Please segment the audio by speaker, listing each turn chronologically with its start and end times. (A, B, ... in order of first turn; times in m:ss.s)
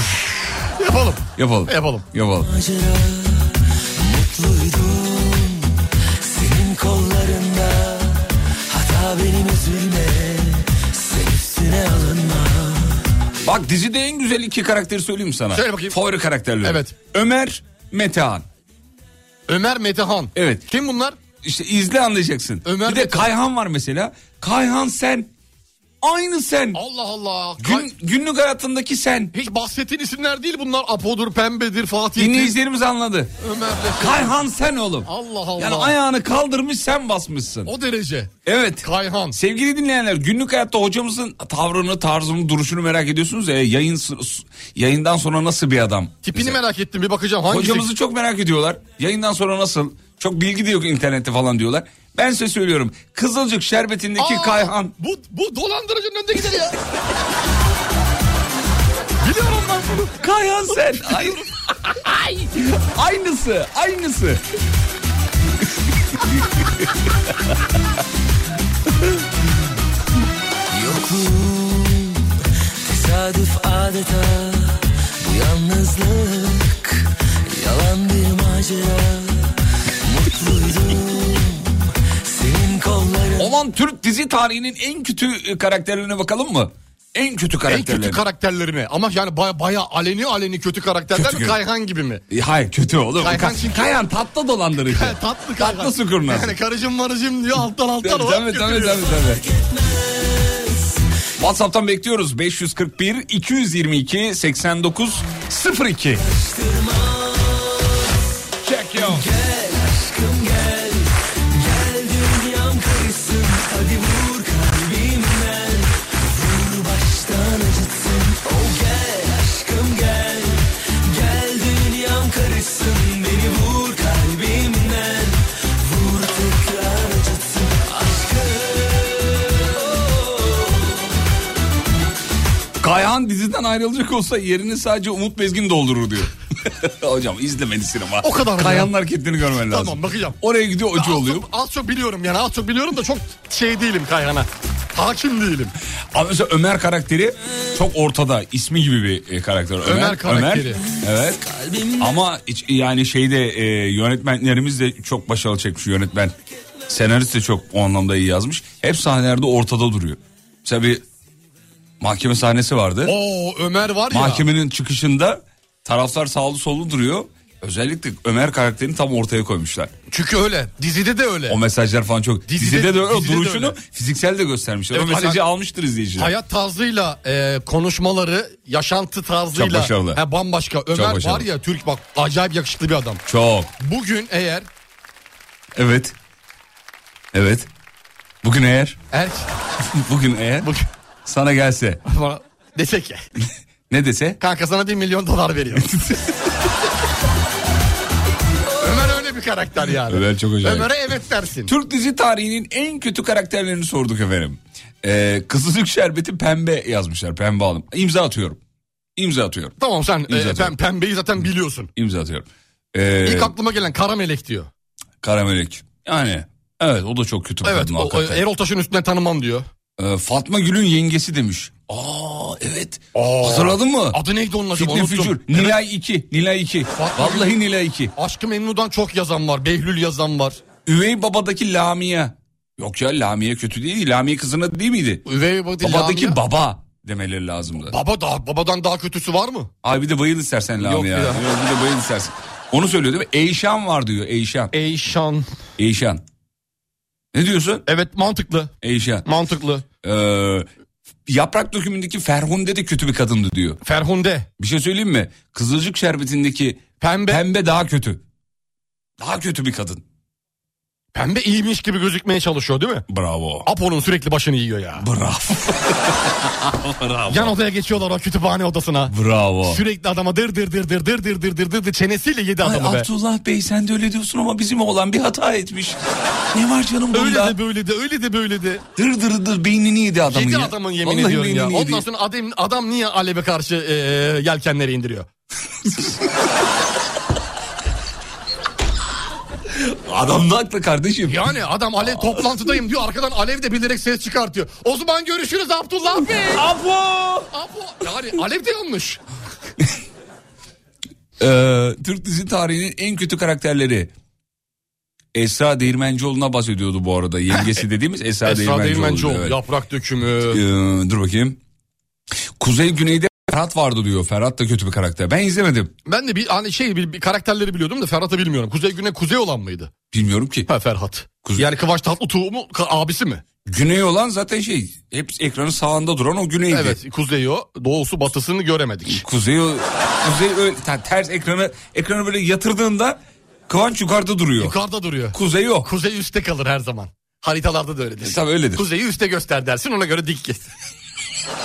0:00.8-0:02.1 A
0:01.4-0:02.5 B
0:02.5-0:03.4 C
0:04.0-0:05.6 C
0:06.3-0:12.8 C
0:13.4-0:18.4 B
0:15.5-0:16.0 A
0:16.6-0:17.0 A
0:19.5-0:21.2 A
0:20.3-0:20.6 B
0:21.4-0:25.3 B
0:22.6-0:23.3 A
0:26.0-0:26.8 B
0:26.7-0:27.9 A
0:27.6-0:29.3 B
0:29.3-0:32.6 A
0:32.2-0:33.3 B
0:33.4-0:34.4 A
0:34.0-0:37.7 B
0:35.0-0:35.9 A
0:37.6-0:39.4 A
0:38.4-0:46.6 B
0:46.2-0:47.9 A
0:47.5-0:54.9 B
0:54.2-0:56.8 A
0:59.2-1:00.2 A
1:00.2-1:04.4 B
1:06.1-1:06.9 B
1:10.7-1:12.2 C
1:12.9-1:14.7 C
1:15.2-1:17.0 C
1:17.5-1:19.3 C
1:20.1-1:21.6 C
1:22.3-1:23.4 C
1:23.4-1:28.2 B
1:27.7-1:32.2 A
1:31.1-1:31.6 B
1:32.3-1:36.6 B
1:33.2-1:34.0 A
1:34.8-1:39.2 A
1:38.0-1:39.5 B
1:41.4-1:46.2 B
1:46.3-1:47.5 C
1:48.6-1:49.3 B
1:49.1-1:51.0 C
1:51.6-2:00.5 C
2:01.1-2:05.3 C
2:05.8-2:08.8 C
2:12.8-2:21.5 B
2:18.2-2:18.9 A
2:19.5-2:20.4 A
2:20.9-2:25.7 A
2:26.1-2:36.3 B
2:29.8-2:30.8 A
2:36.9-2:41.0 B
2:42.0-2:43.2 B
2:43.0-2:44.5 A
2:44.1-2:49.9 B
2:50.1-2:51.6 A
2:51.5-2:56.3 B
2:52.5-2:53.8 A
2:54.9-2:55.4 A
2:56.2-3:03.2 A
2:59.5-3:00.2 B
3:00.9-3:01.5 B
3:03.2-3:03.7 B
3:03.8-3:04.6 A
3:05.8-3:06.1 B
3:07.3-3:07.7 B
3:08.4-3:09.0 B
3:09.1-3:09.5 A
3:09.9-3:10.7 B
3:11.2-3:12.0 B
3:12.1-3:13.2 A
3:13.9-3:14.4 B
3:14.4-3:15.9 A
3:15.8-3:16.3 B
3:18.8-3:21.7 A
3:20.1-3:20.9 B
3:21.6-3:28.6 B
3:29.2-3:29.8 B
3:29.8-3:31.9 A
3:30.3-3:30.7 B
3:32.0-3:33.5 B
3:33.2-3:34.7 A
3:35.2-3:38.4 B
3:37.6-3:39.6 A
3:40.0-3:44.2 B
3:43.1-3:45.8 A
3:44.7-3:48.1 B
3:46.9-3:47.5 A
3:48.2-3:50.6 A
3:50.8-3:55.2 B
3:55.2-3:56.4 A
3:55.8-3:58.0 B
3:57.9-3:59.7 A
3:59.8-4:04.7 B
4:00.8-4:01.4 A
4:04.7-4:05.5 A
4:05.8-4:06.2 B
4:07.3-4:07.8 B
4:07.9-4:08.7 A
4:08.8-4:09.3 B
4:09.2-4:09.8 A
4:10.0-4:10.7 B
4:11.3-4:13.8 B
4:13.8-4:14.5 A
4:14.6-4:18.2 B
4:17.0-4:17.4 A
4:19.2-4:20.0 B
4:21.1-4:23.0 A
4:23.1-4:23.7 B
4:23.6-4:25.0 A
4:25.0-4:27.6 B
4:27.3-4:29.1 A
4:29.1-4:29.8 B
4:29.6-4:33.1 A
4:32.6-4:36.0 B
4:36.5-4:37.6 B
4:37.1-4:38.8 A
4:39.0-4:42.0 B
4:40.3-4:45.3 A
4:45.8-4:46.3 B
4:49.7-4:51.5 B
4:51.3-4:56.7 A
4:52.0-4:52.5 B
4:56.4-4:57.5 B
4:57.5-4:59.2 A
5:01.4-5:04.1 B
5:05.3-5:09.6 B
5:08.4-5:10.6 A
5:10.5-5:11.6 B
5:12.6-5:15.9 B
5:16.0-5:19.9 A
5:20.1-5:20.7 B
5:20.7-5:23.4 A
5:23.6-5:27.0 B
5:26.7-5:29.2 A
5:29.1-5:34.8 B
5:34.6-5:40.6 A
5:35.3-5:35.9 B
5:38.2-5:38.8 B